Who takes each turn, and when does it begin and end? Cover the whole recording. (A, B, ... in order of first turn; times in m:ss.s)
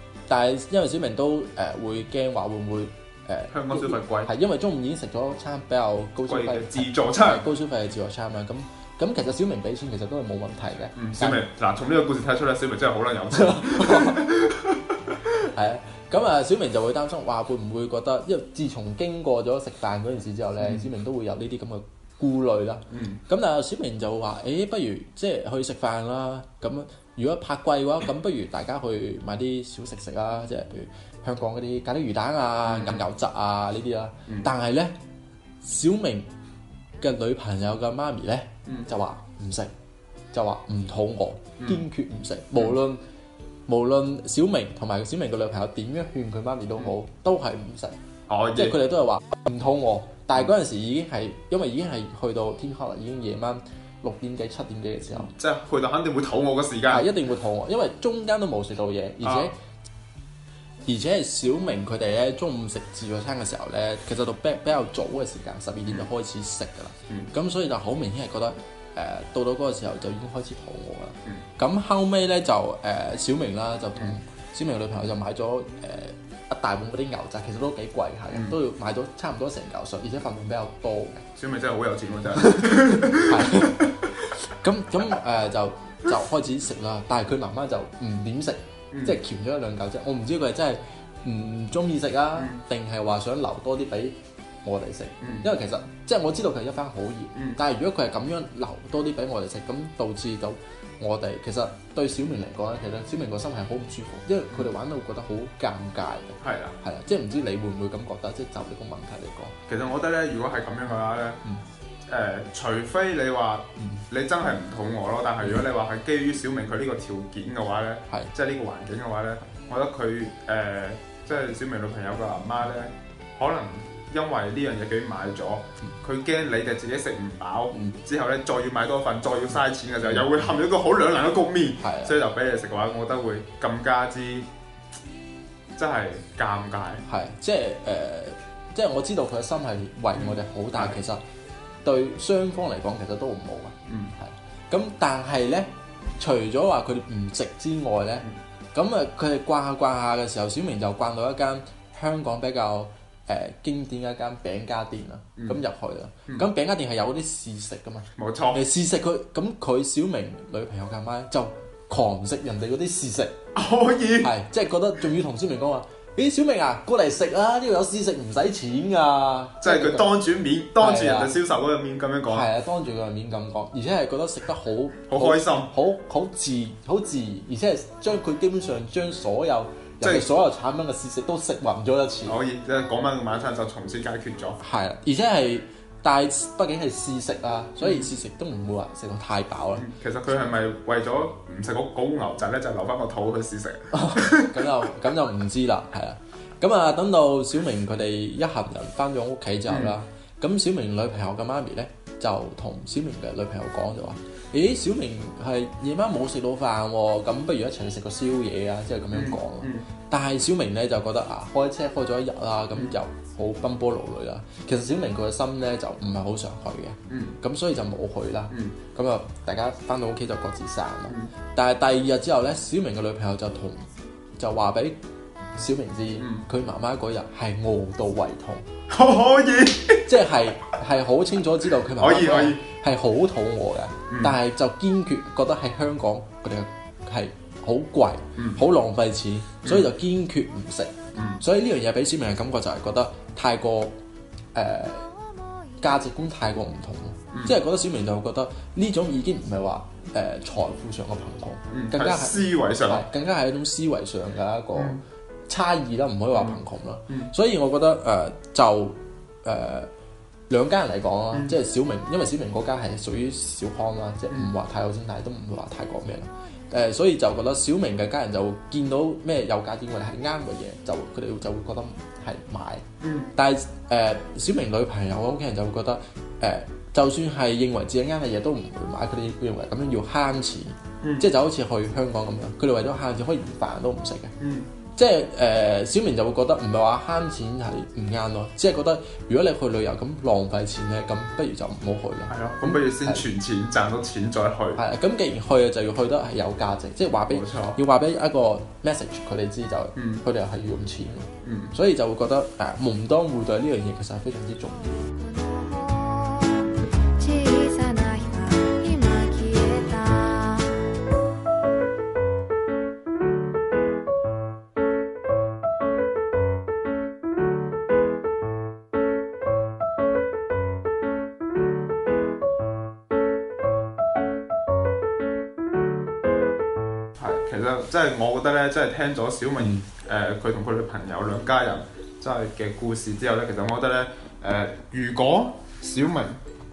0:00.3-0:11.4 A
0:03.5-0:04.3 B
0:06.3-0:07.4 B
0:11.0-0:15.2 B
0:13.3-0:14.3 A
0:15.4-0:34.9 A
0:20.6-0:20.8 B
0:22.9-0:23.2 B
0:32.6-0:33.1 B
0:35.6-0:36.3 A
0:37.0-0:39.7 A
0:40.3-0:43.0 A
0:43.7-0:48.0 A
0:48.3-0:48.8 B
0:48.5-0:55.3 A
0:55.1-0:57.1 B
0:56.9-0:59.5 A
0:59.2-0:59.5 B
1:00.8-1:21.3 A
1:18.3-1:18.6 B
1:21.4-1:24.1 B
1:22.4-1:49.6 A
1:28.9-1:29.2 B
1:35.2-1:35.4 B
1:46.4-1:46.8 B
1:49.7-1:51.4 B
1:52.0-2:14.5 B
1:53.8-1:54.0 A
2:11.8-2:12.2 A
2:15.7-2:17.0 B
2:17.0-2:21.2 A
2:20.1-2:21.0 B
2:21.8-2:43.4 A
2:23.9-2:24.1 B
2:38.2-2:38.6 B
2:43.5-2:44.3 B
2:44.2-2:50.1 A
2:49.6-2:52.5 B
2:50.8-2:51.3 A
2:52.3-3:02.4 A
2:55.1-2:55.7 B
3:02.2-3:04.6 B
3:04.6-3:09.9 A
3:07.8-3:08.1 B
3:09.8-3:14.8 B
3:13.9-3:43.9 A
3:19.7-3:19.9 B
3:29.1-3:29.8 B
3:37.1-3:37.3 B
3:38.5-3:38.7 B
3:44.4-3:45.0 A
3:45.6-3:48.6 A
3:48.9-3:50.1 B
3:50.0-4:04.0 A
3:52.0-3:52.6 B
3:54.1-3:54.4 B
3:58.4-3:58.6 B
3:59.6-3:59.9 B
4:01.1-4:01.4 B
4:04.5-4:05.1 A
4:05.8-4:19.9 A
4:11.7-4:13.0 B
4:14.7-4:15.0 B
4:16.3-4:17.3 B
4:20.5-4:44.3 A
4:21.3-4:21.6 B
4:33.0-4:33.3 B
4:41.0-4:41.3 B
4:44.4-4:44.7 B
4:45.0-4:53.2 A
4:52.3-4:54.8 B
4:54.8-5:05.1 A
4:57.3-4:57.8 B
5:00.0-5:00.2 B
5:01.4-5:01.7 B
5:05.1-5:10.9 C
5:27.2-5:36.4 B
5:29.6-5:29.8 A